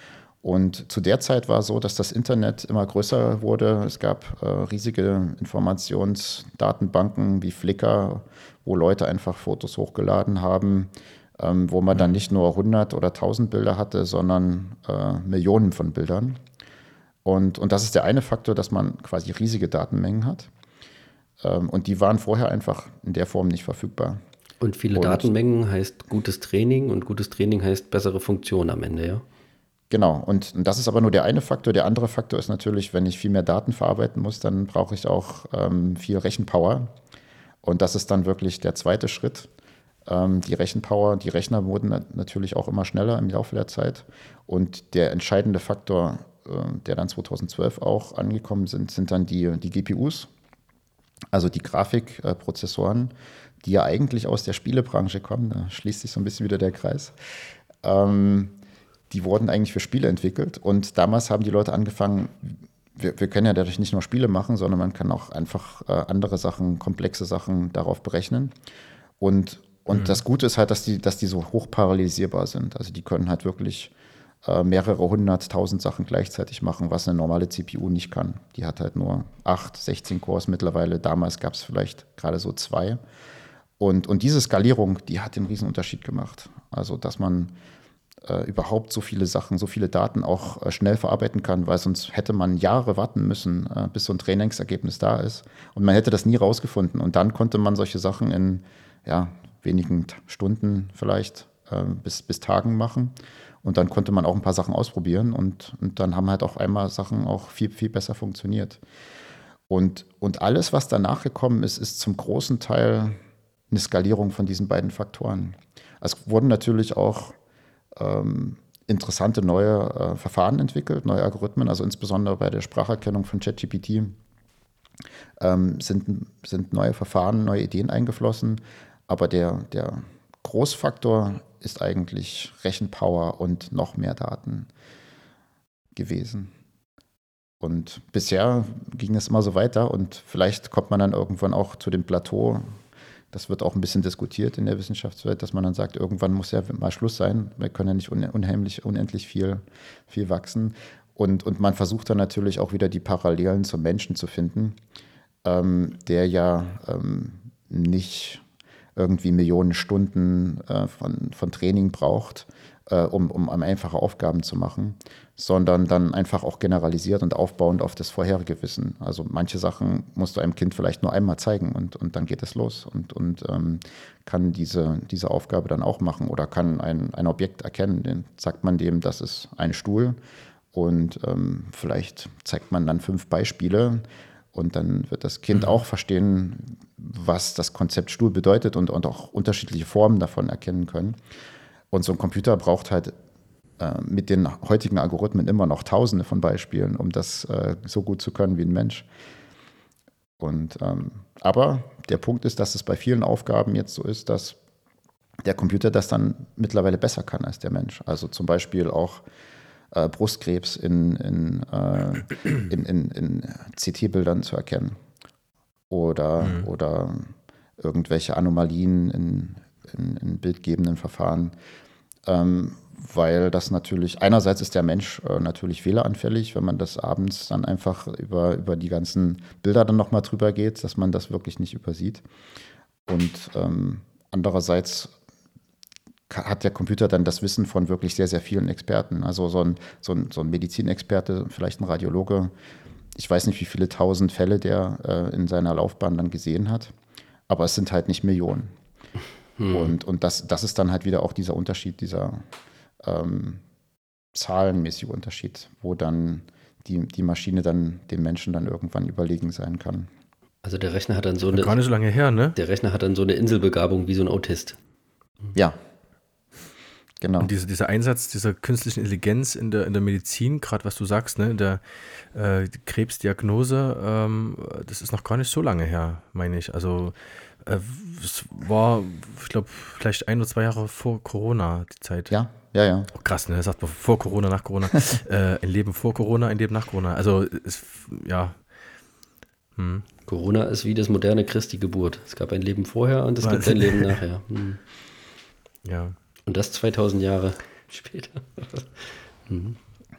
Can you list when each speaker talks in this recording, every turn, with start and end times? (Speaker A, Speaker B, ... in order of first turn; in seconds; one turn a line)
Speaker A: 0.4-16.4
Speaker A: 17.2-20.5
Speaker A: 21.4-24.2
Speaker B: 24.6-29.2
Speaker A: 24.9-25.3
Speaker A: 29.9-36.9
Speaker A: 37.6-39.5
Speaker A: 40.0-50.3
Speaker A: 51.3-57.1
Speaker A: 57.8-58.5
Speaker A: 59.1-68.5
Speaker A: 69.2-73.9
Speaker A: 74.4-83.0
Speaker A: 83.8-87.5
Speaker A: 88.2-108.8
Speaker A: 109.7-113.2
Speaker A: 113.7-117.4
Speaker A: 118.0-124.2
Speaker A: 125.4-134.7
Speaker A: 135.9-136.5
Speaker A: 137.6-142.8
Speaker A: 143.3-154.8
Speaker A: 155.4-158.4
Speaker A: 158.9-180.2
Speaker A: 180.7-191.2
Speaker A: 191.9-193.1
Speaker A: 193.8-199.1
Speaker A: 200.4-204.6
Speaker A: 205.4-209.2
Speaker A: 209.9-215.0
Speaker A: 215.9-221.5
Speaker A: 222.2-232.2
Speaker A: 233.1-235.1
Speaker A: 236.3-242.5
Speaker A: 243.1-246.9
Speaker A: 247.5-248.7
Speaker B: 249.6-249.9
Speaker A: 249.7-252.4
Speaker A: 253.0-253.6
Speaker A: 254.3-260.1
Speaker B: 260.6-261.8
Speaker C: 261.5-262.6
Speaker B: 262.6-264.8
Speaker A: 267.2-267.5
Speaker C: 267.4-271.8
Speaker C: 272.3-282.3
Speaker A: 282.3-283.1
Speaker C: 283.1-288.6
Speaker C: 289.8-290.1
Speaker B: 290.2-294.8
Speaker C: 293.4-294.2
Speaker C: 295.8-296.1
Speaker B: 296.4-299.8